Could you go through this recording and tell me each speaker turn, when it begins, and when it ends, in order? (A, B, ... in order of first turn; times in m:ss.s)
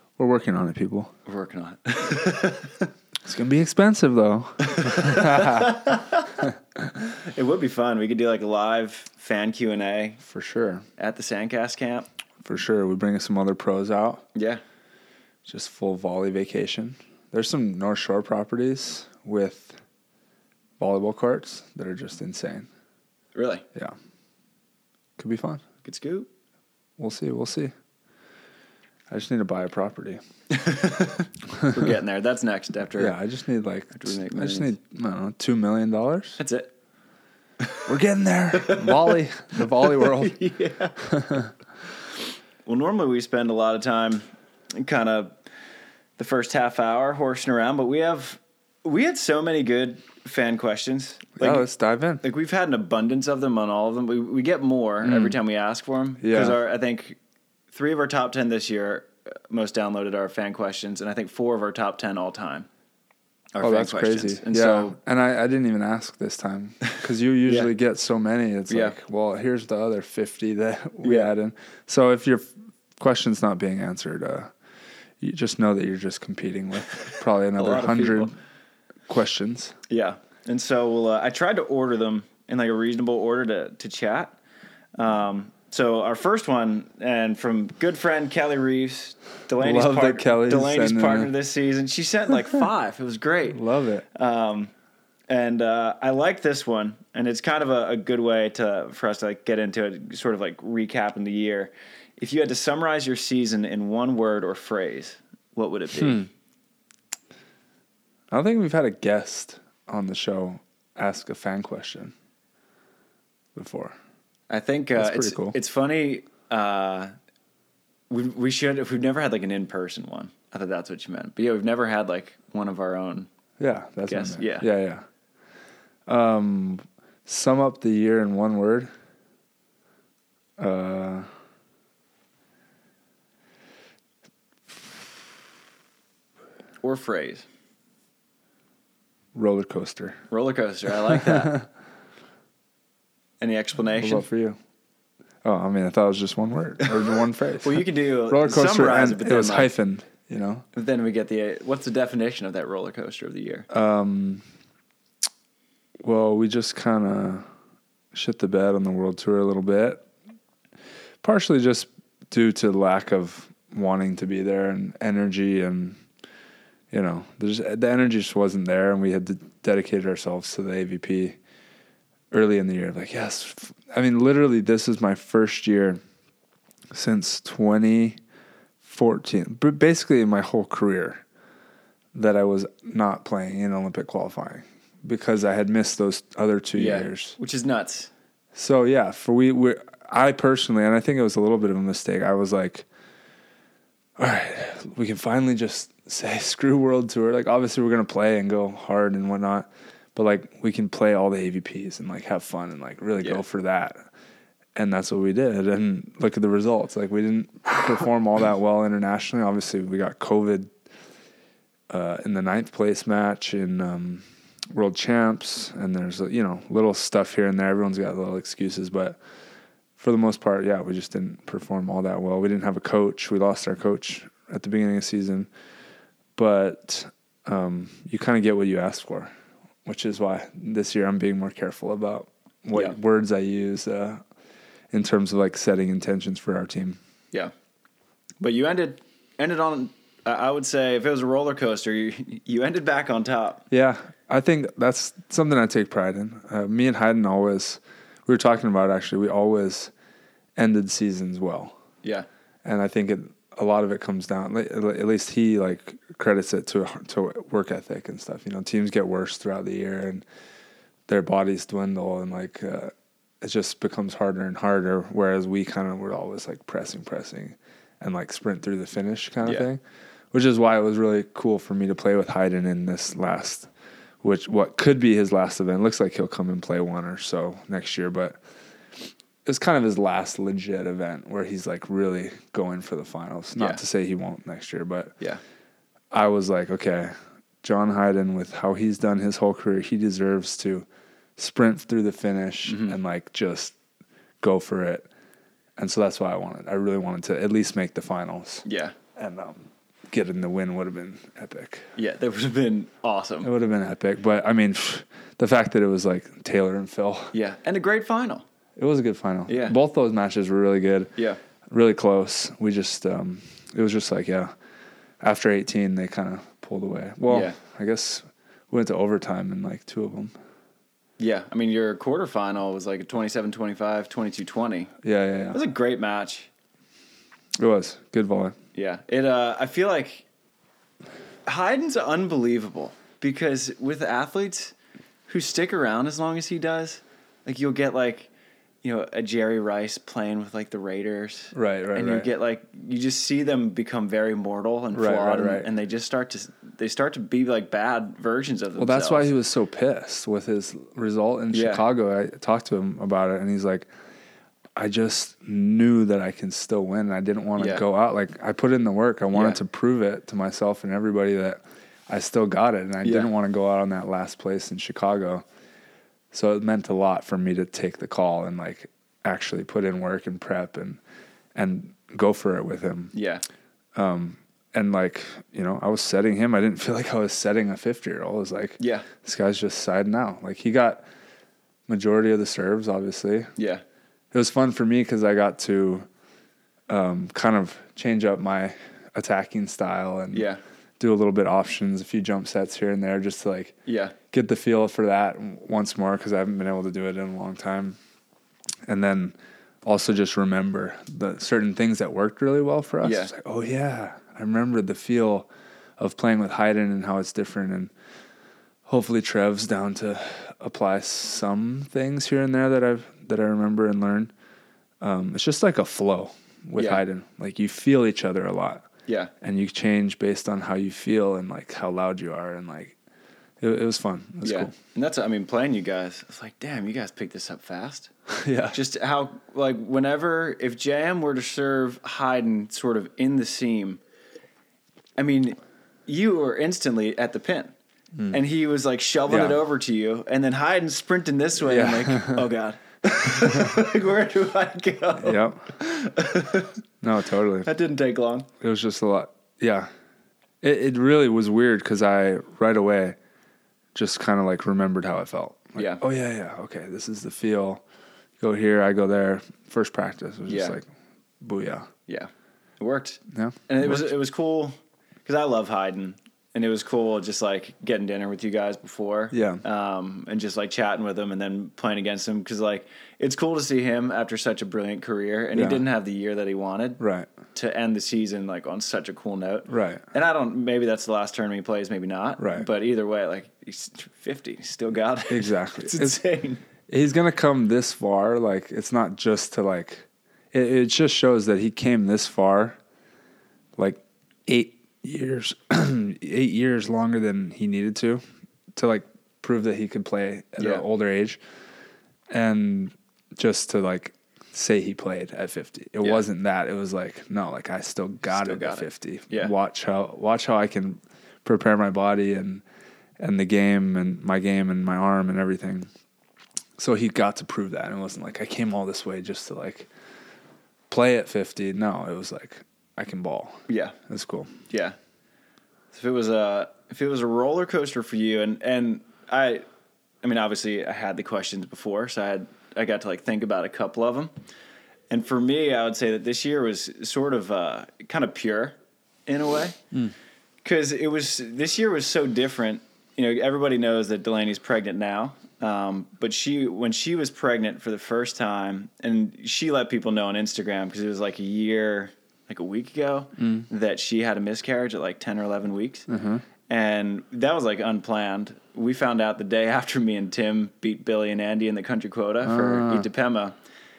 0:00.2-0:01.1 A
0:01.2-0:02.9 B
0:03.2-0:05.8 A
0:04.6-0:06.4 B
0:07.0-0:10.2 B
0:10.2-0:10.8 A
0:11.0-0:12.1 B
0:12.4-0:14.2 A
0:14.3-0:14.6 B
0:15.4-0:19.8 A
0:20.8-0:22.7 A
0:23.3-0:23.6 B
0:25.2-0:25.6 A
0:25.8-0:26.3 B
0:27.0-0:27.7 A
0:29.1-0:30.2 A
0:30.5-0:33.1 B
0:33.0-0:36.4 A
0:33.9-0:34.7 B
0:36.4-0:36.7 B
0:37.6-0:37.9 B
0:37.9-0:40.4 A
0:38.5-0:41.1 B
0:41.0-0:41.5 A
0:42.6-0:45.4 B
0:46.2-0:51.6 B
0:51.4-0:52.2 A
0:52.2-0:57.2 B
0:55.0-0:55.4 A
0:56.2-0:56.6 A
0:57.7-1:02.7 B
1:03.5-1:05.0 B
1:03.6-1:14.5 A
1:07.4-1:07.7 B
1:08.7-1:09.0 B
1:11.0-1:11.3 B
1:15.2-1:18.3 A
1:17.6-1:18.3 B
1:19.1-1:19.7 A
1:19.9-1:24.4 B
1:24.9-1:33.6 B
1:29.6-1:31.3 A
1:33.5-1:34.0 A
1:34.1-1:34.7 B
1:35.3-1:46.3 B
1:48.3-1:52.1 A
1:53.5-1:53.9 A
1:54.5-1:57.1 B
1:55.0-1:55.6 A
1:58.1-2:03.3 B
2:03.6-2:05.0 A
2:04.1-2:04.6 B
2:06.0-2:08.9 A
2:10.6-2:11.2 A
2:16.8-2:17.4 B
2:19.3-2:20.2 A
2:20.3-2:21.6 B
2:23.4-2:24.2 B
2:24.0-2:24.6 A
2:25.4-2:30.6 A
2:27.6-2:29.7 B
2:30.7-2:33.7 B
2:33.7-2:34.4 A
2:36.0-2:37.4 A
2:38.1-2:40.0 A
2:41.2-2:46.0 A
2:46.9-2:51.4 A
2:52.3-2:56.0 A
2:56.9-2:58.2 A
2:58.8-3:01.2 A
3:02.1-3:07.4 A
3:06.7-3:08.1 B
3:08.5-3:12.8 A
3:14.2-3:24.0 A
3:24.8-3:30.7 A
3:31.9-3:39.2 A
3:40.0-3:45.5 A
3:46.4-3:49.3 A
3:49.8-3:54.2 A
3:54.9-3:57.0 A
3:58.4-4:03.6 B
4:03.7-4:09.9 A
4:10.6-4:11.8 A
4:12.6-4:20.2 A
4:21.1-4:29.8 A
4:30.3-4:33.7 A
4:34.2-4:38.4 A
4:39.4-4:45.1 A
4:43.6-4:43.8 B
4:46.1-4:50.8 A
4:51.4-4:53.7 A
4:52.6-4:53.0 B
4:54.4-4:55.1 A
4:55.8-4:58.6 A
4:58.6-4:58.9 B
4:59.2-5:01.9 A
5:02.0-5:03.5 B
5:03.4-5:07.3 A
5:07.3-5:08.4 B
5:08.8-5:11.1 A
5:09.5-5:09.8 B
5:11.7-5:14.5 A
5:15.2-5:20.3 A
5:17.3-5:17.6 B
5:21.2-5:24.9 B
5:25.0-5:25.6 A
5:25.5-5:26.5 B
5:27.6-5:28.6 A
5:28.7-5:30.2 B
5:31.4-5:34.7 B
5:35.3-5:38.3 B
5:38.8-5:49.3 B
5:41.5-5:42.3 A
5:44.9-5:45.7 A
5:48.8-5:53.9 A
5:51.5-5:51.8 B
5:54.8-6:05.4 A
5:57.6-5:57.8 B
5:59.3-5:59.6 B
6:03.0-6:03.3 B
6:06.3-6:11.0 A
6:11.5-6:13.1 A
6:13.1-6:13.4 B
6:14.0-6:21.0 A
6:18.8-6:19.1 B
6:21.9-6:23.5 A
6:23.6-6:23.8 B
6:24.3-6:26.0 A
6:26.9-6:30.5 A
6:30.3-6:30.6 B
6:31.0-6:33.8 A
6:33.8-6:34.1 B
6:34.3-6:38.0 A
6:38.8-6:47.9 A
6:43.0-6:43.3 B
6:48.8-6:54.3 A
6:55.0-6:58.8 A
6:56.8-6:57.0 B
6:59.1-6:59.3 B
6:59.4-7:03.0 A
7:03.6-7:04.7 A
7:04.4-7:08.1 B
7:08.3-7:08.8 A
7:08.7-7:14.0 B
7:15.2-7:17.7 B
7:18.3-7:26.8 B
7:19.3-7:19.6 A
7:21.6-7:22.4 A
7:23.2-7:23.8 A
7:25.2-7:25.6 A
7:27.0-7:27.7 A
7:27.6-7:28.5 B
7:28.6-7:29.9 A
7:30.6-7:33.2 A
7:33.9-7:37.8 A
7:35.8-7:36.0 B
7:38.4-7:40.9 A
7:40.5-7:40.8 B
7:41.4-7:41.9 A
7:42.0-7:57.0 B
7:43.3-7:44.1 A
7:49.3-7:49.6 A
7:55.5-7:55.8 A
7:57.0-7:57.3 A
7:57.5-8:06.6 B
7:59.7-8:00.0 A
8:02.4-8:02.6 A
8:05.3-8:06.2 A
8:06.9-8:12.8 A
8:13.8-8:18.2 A
8:18.7-8:21.4 A
8:20.6-8:20.8 B
8:22.3-8:32.6 A
8:28.3-8:29.5 B
8:33.2-8:35.9 A
8:36.8-8:39.9 A
8:40.9-8:44.5 A
8:43.7-8:44.0 B
8:44.7-8:45.0 B
8:45.9-8:49.6 B
8:50.2-8:54.3 B
8:55.1-8:58.8 B
8:59.3-8:59.8 B
9:00.6-9:16.1 B
9:13.4-9:13.6 A
9:16.1-9:16.4 A
9:16.7-9:23.6 B
9:22.4-9:23.1 A